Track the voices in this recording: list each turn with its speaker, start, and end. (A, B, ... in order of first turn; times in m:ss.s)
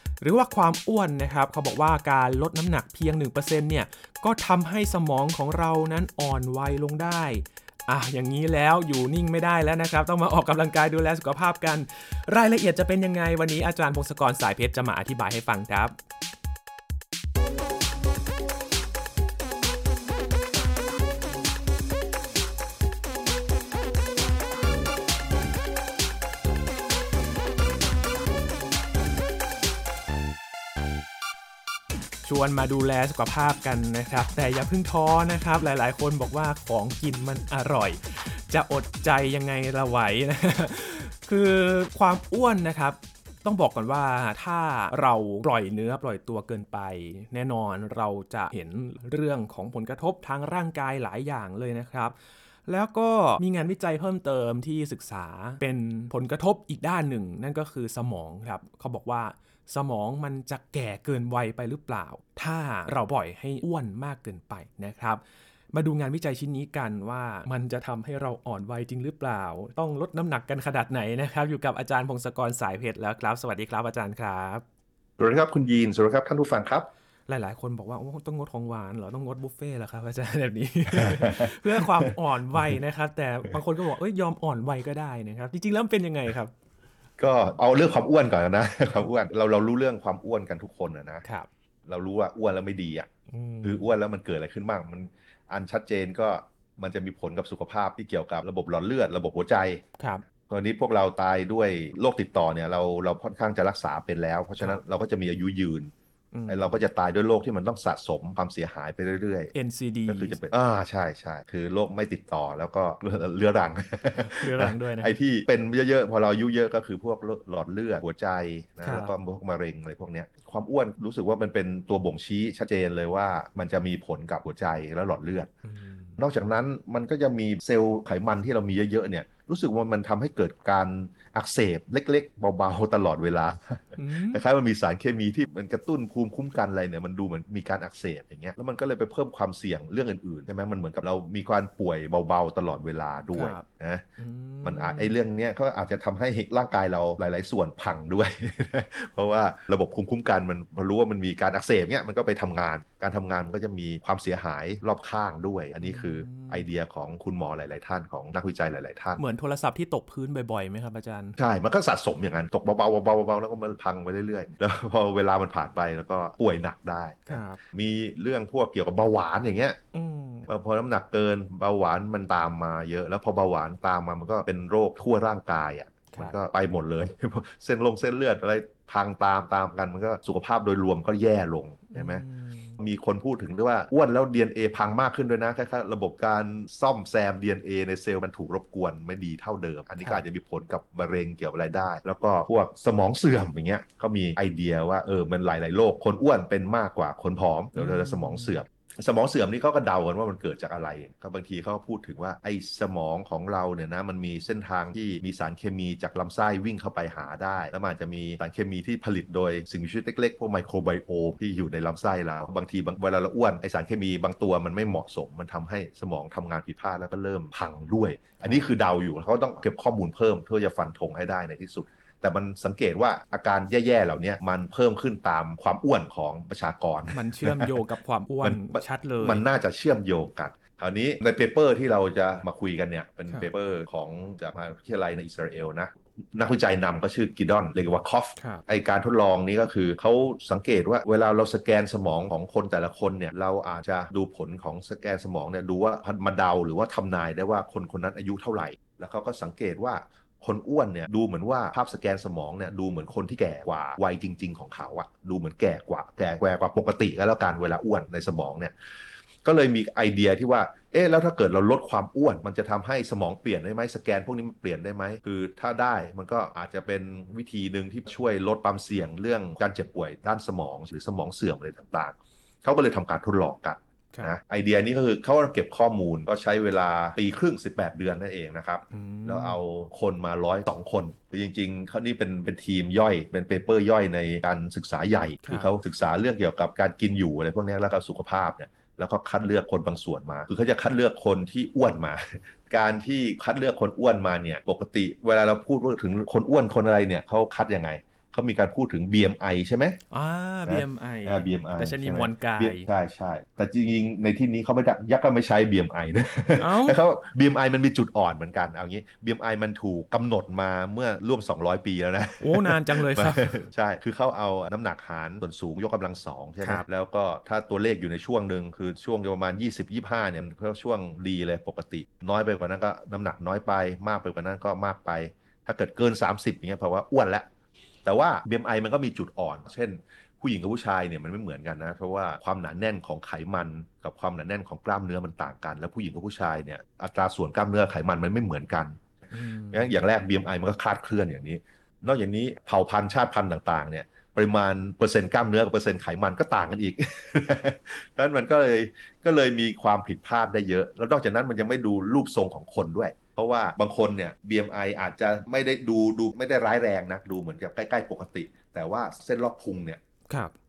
0:00.2-0:15.9 A
0:32.2-0:52.1 A
0:52.7-1:05.2 A
1:05.7-1:14.6 A
1:15.2-1:16.9 B
1:17.3-1:26.5 A
1:20.9-1:22.8 B
1:27.2-1:31.2 B
1:31.9-1:33.1 B
1:33.3-1:33.9 A
1:33.6-1:39.8 B
1:40.0-1:40.2 A
1:40.5-1:45.9 B
1:46.3-1:46.8 A
1:46.5-1:49.5 B
1:49.5-1:50.4 A
1:50.1-2:05.5 B
1:54.2-1:55.1 A
1:58.8-1:59.1 A
2:05.6-2:06.2 A
2:06.2-2:24.0 B
2:14.0-2:14.4 A
2:23.3-2:23.6 A
2:24.2-2:25.1 A
2:24.6-2:39.2 B
2:35.8-2:36.7 A
2:39.2-2:41.4 A
2:41.4-2:49.8 B
2:47.3-2:47.6 A
2:49.9-2:50.5 A
2:50.5-3:02.2 B
3:01.9-3:02.8 A
3:02.8-3:47.8 B
3:17.7-3:18.6 A
3:47.1-3:49.4 A
3:48.4-4:18.7 B
3:58.4-3:58.6 A
4:19.4-5:00.0 B
4:38.9-4:39.6 A
4:45.4-4:45.7 A
5:00.1-5:02.9 A
5:00.6-5:27.5 B
5:06.6-5:07.0 A
5:12.4-5:13.6 A
5:28.0-5:39.0 B
5:39.3-5:39.9 A
5:39.7-6:00.0 B
6:00.3-6:00.5 A